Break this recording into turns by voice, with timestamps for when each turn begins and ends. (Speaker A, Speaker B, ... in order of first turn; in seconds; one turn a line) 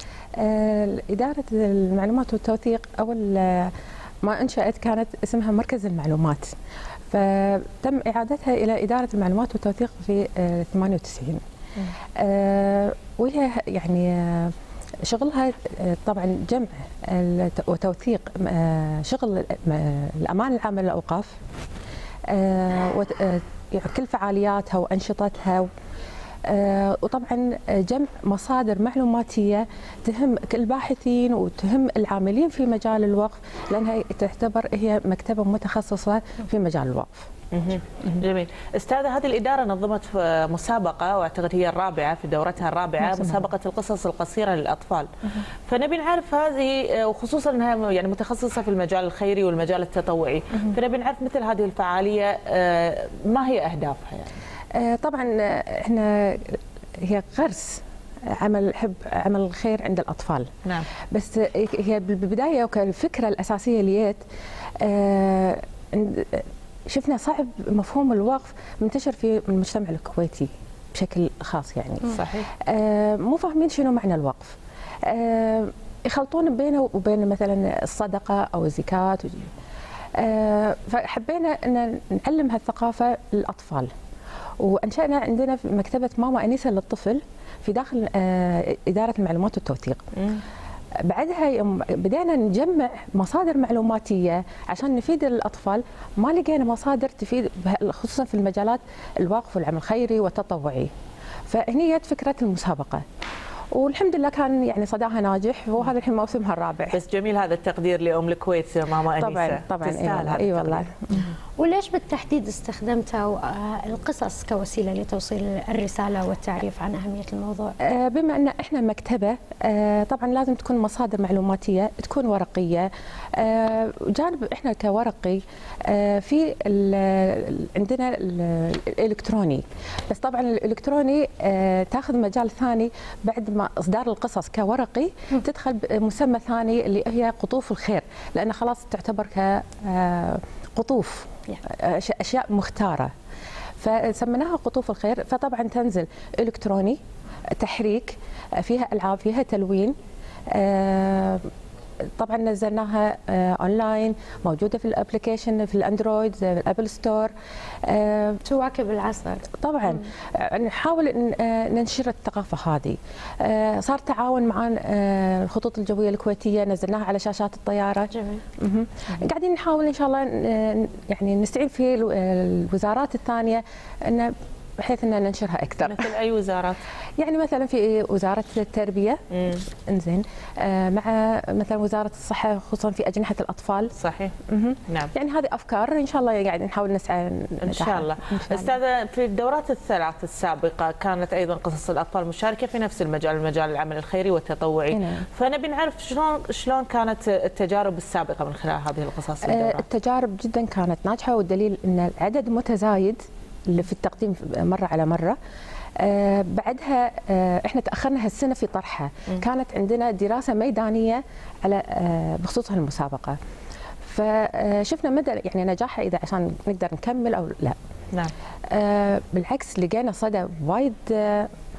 Speaker A: 0.4-6.5
Speaker A: 7.1-11.4
Speaker A: 12.2-21.4
Speaker A: 22.3-25.7
Speaker A: 26.4-37.3
Speaker B: 37.5-54.3
Speaker A: 43.0-43.4
Speaker A: 54.7-60.5
Speaker A: 61.1-64.2
Speaker A: 64.8-79.5
Speaker B: 72.1-72.5
Speaker A: 80.2-83.9
Speaker A: 84.6-90.0
Speaker A: 91.0-100.9
Speaker A: 101.5-103.0
Speaker A: 103.7-107.0
Speaker B: 106.9-110.9
Speaker A: 109.2-111.3
Speaker C: 111.6-117.8
Speaker A: 117.8-143.1
Speaker A: 143.8-147.0
Speaker A: 147.6-149.9
Speaker A: 150.5-151.5
Speaker A: 152.2-157.3
Speaker A: 157.8-158.4
Speaker C: 158.4-159.5
Speaker A: 159.6-176.1
Speaker C: 168.1-168.4
Speaker B: 175.8-176.8
Speaker A: 177.2-179.2
Speaker B: 179.3-179.6
Speaker A: 179.8-183.9
Speaker B: 183.9-184.3
Speaker A: 184.5-188.7
Speaker B: 187.6-199.8
Speaker A: 194.9-195.2
Speaker A: 199.4-205.4
Speaker A: 206.0-213.4
Speaker A: 214.0-217.8
Speaker A: 218.7-221.5